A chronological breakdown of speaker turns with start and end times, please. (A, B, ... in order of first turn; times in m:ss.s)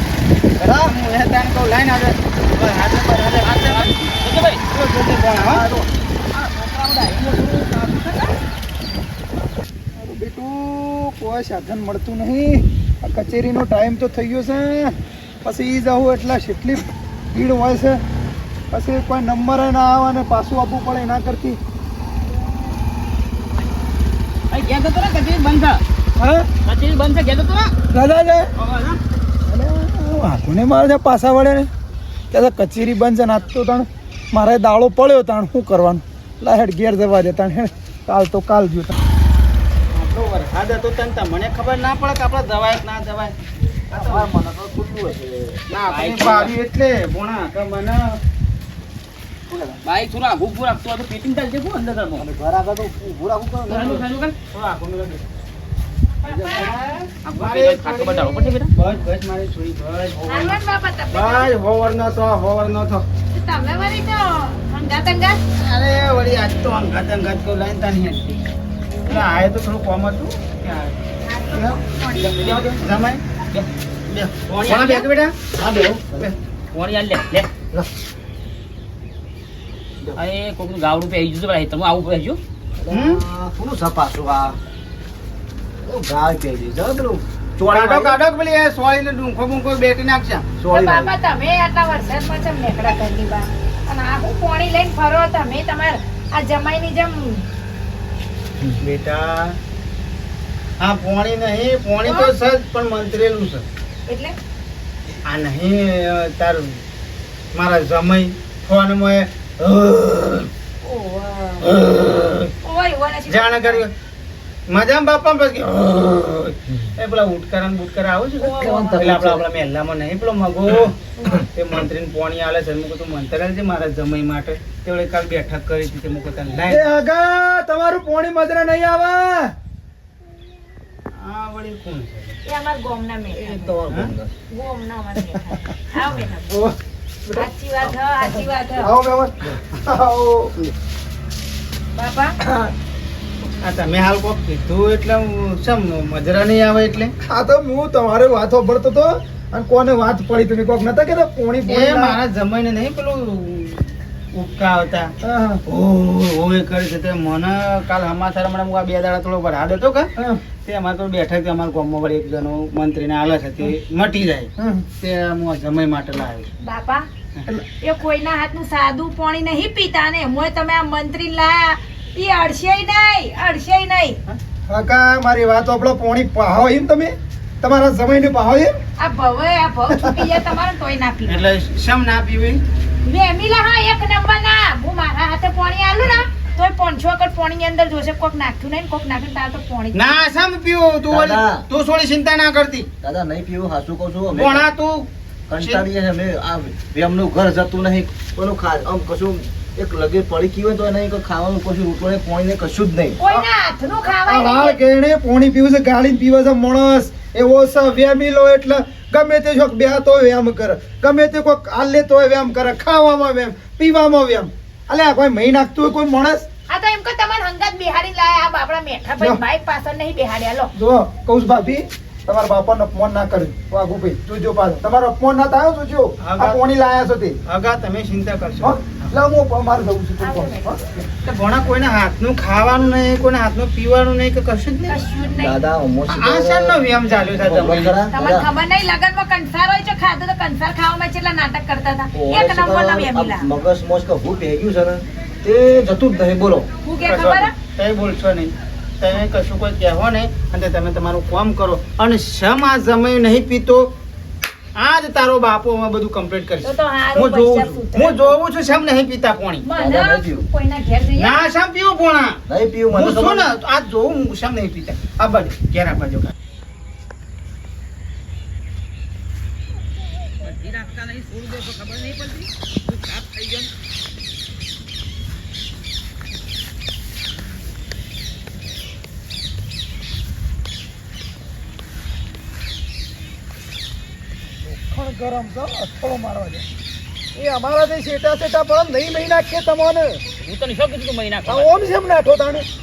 0:00.6-0:00.9 A
0:00.6-0:03.9 B
0:03.4-0:04.6 C
0:04.7-0:05.6 B
0:05.3-0:05.9 A
0:06.3-0:08.3 C
0:10.0-0:18.0 D
0:18.7-0:21.6 D
0:24.5-0:25.8 C
0:26.2-0:26.5 D
0:26.6-0:27.7 C
0:27.9-0:28.5 D
0:28.6-0:29.0 C
0:29.4-0:31.7 D
0:32.3-0:38.9 D
0:39.9-0:43.3 B
0:43.9-0:44.3 B
0:43.9-0:45.6 A
0:45.7-0:48.2 B
0:45.8-0:46.6 C
0:49.5-0:49.8 A
0:49.8-0:52.2 C
0:52.2-0:53.9 A
0:53.7-0:54.3 C
0:54.5-0:55.2 B
0:56.2-0:56.8 E
0:56.3-1:00.6 B
0:57.2-0:58.7 C
1:00.2-1:01.5 E
1:01.1-1:03.1 B
1:03.3-1:05.4 E
1:05.6-1:08.4 B
1:08.9-1:09.4 E
1:09.1-1:11.0 B
1:11.2-1:12.5 E
1:11.5-1:13.2 B
1:12.4-1:12.8 C
1:14.1-1:15.4 B
1:14.5-1:15.1 C
1:15.5-1:16.3 A
1:16.7-1:17.5 C
1:20.2-1:22.4 C
1:22.8-1:24.6 A
1:22.9-1:23.2 B
1:25.8-1:28.2 A
1:27.6-1:30.5 B
1:30.6-1:31.1 A
1:30.7-1:37.4 E
1:38.8-1:39.6 B
1:40.8-1:43.6 B
1:42.0-1:42.3 E
1:44.1-1:44.4 E
1:45.2-1:46.8 B
1:47.5-1:50.5 B
1:50.8-1:51.7 E
1:51.7-1:52.5 B
1:52.6-1:53.8 E
1:53.3-1:53.9 B
1:54.7-2:01.0 B
1:58.4-1:59.1 E
1:58.6-1:59.4 A
2:01.1-2:01.5 E
2:01.5-2:06.9 B
2:06.7-2:09.5 D
2:11.1-2:12.4 B
2:12.4-2:13.7 E
2:13.4-2:14.3 A
2:13.9-2:14.1 B
2:14.5-2:16.5 E
2:16.5-2:16.8 D
2:17.3-2:18.9 E
2:18.2-2:20.5 D
2:21.9-2:22.4 E
2:22.4-2:22.7 D
2:23.6-2:27.1 B
2:27.2-2:32.2 D
2:31.6-2:35.1 B
2:35.2-2:35.6 D
2:35.6-2:40.1 B
2:40.6-2:46.5 B
2:44.6-2:44.9 D
2:46.6-2:47.0 E
2:47.8-2:54.2 E
2:54.7-2:58.7 D
2:59.0-3:01.4 E
3:01.2-3:02.6 B
3:03.0-3:10.2 E
3:09.9-3:12.9 B
3:11.1-3:11.6 A
3:13.0-3:14.7 A
3:14.3-3:15.8 B
3:15.5-3:23.2 A
3:23.2-3:24.8 E
3:24.2-3:36.4 D
3:36.7-3:40.7 E
3:40.7-3:47.4 D
3:46.2-3:46.6 B
3:47.4-3:49.2 B
3:48.6-3:51.0 D
3:50.2-3:50.8 E
3:51.2-3:55.0 B
3:54.9-3:55.6 E
3:55.4-3:58.5 A
3:56.1-3:58.0 B
3:58.1-4:03.5 E
4:02.1-4:06.7 A
4:06.8-4:07.5 E
4:07.0-4:14.0 B
4:14.7-4:19.6 B
4:16.6-4:18.4 E
4:19.6-4:21.4 E
4:19.7-4:20.4 A
4:21.2-4:22.4 B
4:22.5-4:23.5 A
4:22.9-4:26.3 B
4:30.4-4:33.7 C
4:44.6-4:46.6 D
4:47.3-4:50.2 D
4:50.4-4:51.7 C
4:51.4-4:52.6 D